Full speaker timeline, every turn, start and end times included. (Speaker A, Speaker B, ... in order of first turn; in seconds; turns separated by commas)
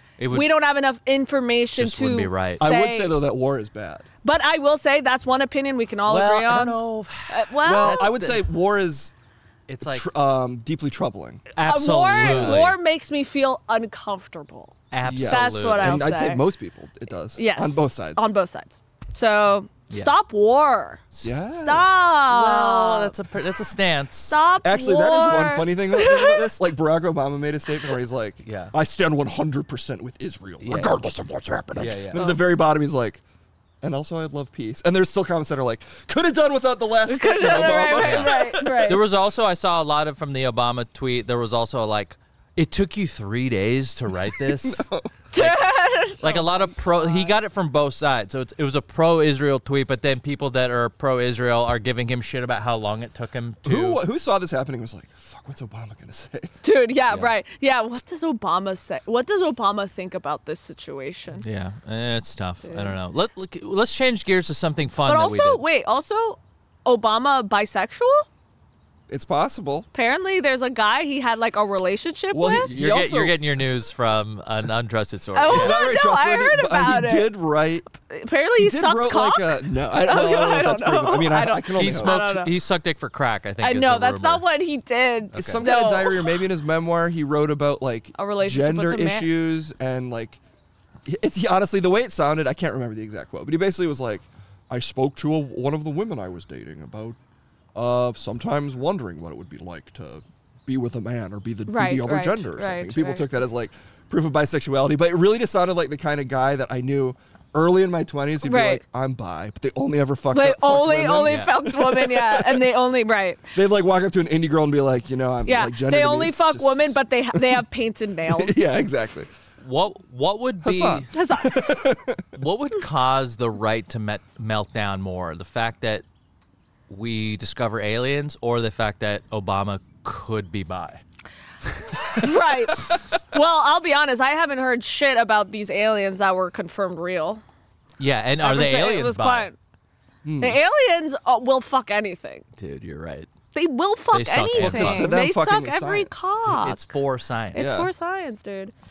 Speaker A: 0.2-0.5, Speaker B: 0.3-3.2, Speaker A: 1.7-2.7, Speaker C: 2.6-4.1, Speaker B: 4.2-6.8, Speaker A: 6.0-8.4, Speaker B: 7.3-8.1, Speaker C: 7.6-9.1, Speaker A: 9.7-10.1, Speaker C: 9.8-11.4, Speaker A: 11.5-12.8, Speaker B: 11.6-16.4, Speaker C: 12.2-12.7, Speaker A: 14.9-16.1, Speaker C: 15.0-18.2, Speaker B: 17.4-23.1, Speaker C: 21.2-21.9, Speaker A: 22.2-24.4, Speaker B: 24.3-26.5, Speaker C: 24.6-33.2, Speaker A: 28.4-28.7, Speaker A: 30.6-30.9, Speaker A: 31.8-32.2, Speaker C: 33.8-39.0, Speaker B: 37.1-39.0, Speaker A: 37.6-54.0, Speaker C: 44.4-45.2, Speaker B: 45.3-47.4, Speaker C: 53.6-56.5, Speaker B: 56.6-61.4, Speaker A: 61.4-65.6, Speaker B: 62.6-62.9, Speaker B: 65.0-68.3, Speaker C: 69.1-69.9, Speaker B: 69.9-72.7, Speaker C: 72.3-73.4, Speaker A: 72.7-75.8, Speaker B: 75.3-77.3, Speaker C: 75.5-78.0, Speaker B: 78.1-82.5, Speaker C: 78.6-82.3, Speaker A: 81.7-84.4, Speaker B: 83.6-86.3, Speaker A: 85.3-85.7, Speaker C: 85.3-90.4, Speaker B: 88.2-89.3, Speaker C: 91.0-97.2, Speaker C: 97.7-112.7, Speaker B: 101.7-103.3, Speaker B: 108.4-108.8, Speaker B: 110.3-113.5, Speaker A: 111.2-111.5, Speaker C: 113.5-117.6, Speaker B: 115.5-118.6, Speaker C: 118.3-119.3, Speaker A: 119.6-121.1, Speaker C: 120.6-122.2, Speaker B: 121.1-121.9, Speaker A: 122.3-126.0, Speaker A: 126.9-131.0, Speaker A: 131.8-132.2, Speaker B: 132.1-137.4, Speaker A: 138.0-139.5, Speaker B: 138.4-139.5, Speaker C: 140.2-140.6, Speaker B: 140.4-142.4, Speaker A: 142.6-143.3, Speaker B: 143.5-146.9, Speaker A: 144.1-145.2, Speaker C: 144.6-146.1, Speaker A: 146.4-147.7, Speaker B: 147.5-148.7, Speaker C: 147.5-147.9